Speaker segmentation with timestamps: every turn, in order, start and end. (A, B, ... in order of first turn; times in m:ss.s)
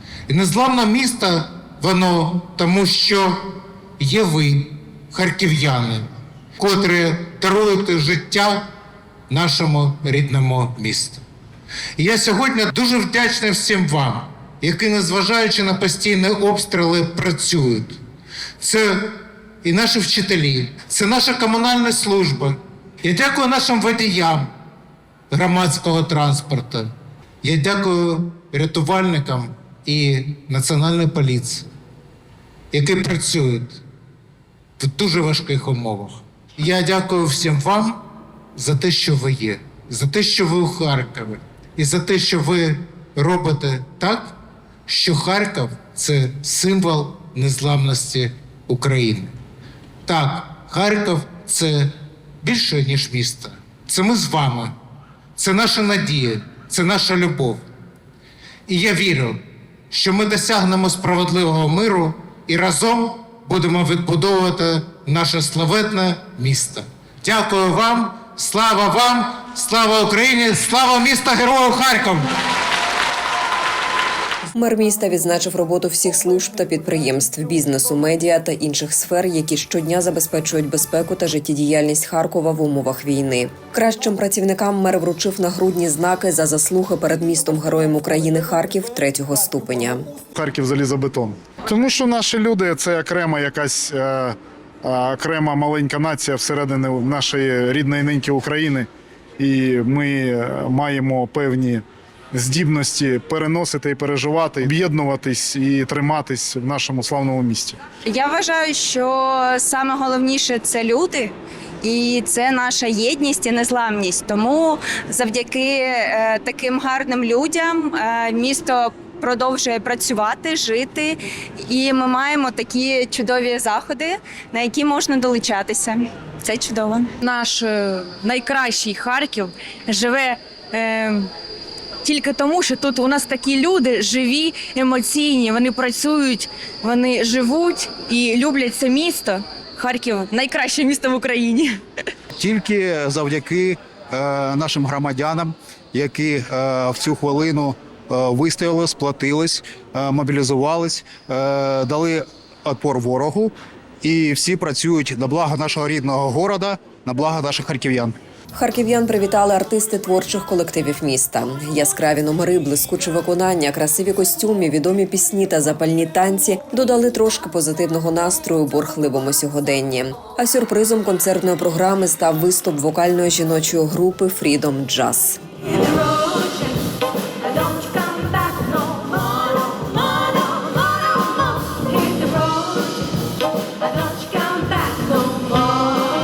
0:00.3-0:03.4 A
0:04.0-0:08.6 A
0:09.3-0:11.2 A
0:12.0-0:18.0 A
0:18.6-0:24.5 A
0:25.3-0:26.9 A
0:27.4-0:31.7 A
0:32.7-0:33.8 A
0:34.8-0:38.0 A
0:38.6-0:44.4 A
0:44.9-0:49.3 A
0:50.0-0:54.7 A
0:55.4-0:57.6 A
0:58.7-0:59.4 A
0:59.9-1:12.2 A
1:14.5-1:30.0 B
1:30.3-1:38.9 C
1:39.4-1:47.8 C
1:48.0-2:07.1 D
2:07.2-2:11.3 E
2:12.0-2:21.8 E
2:22.3-2:38.2 F
2:38.5-2:55.4 B
2:57.7-2:59.2 E
3:02.2-3:02.5 E
3:04.2-3:05.1 E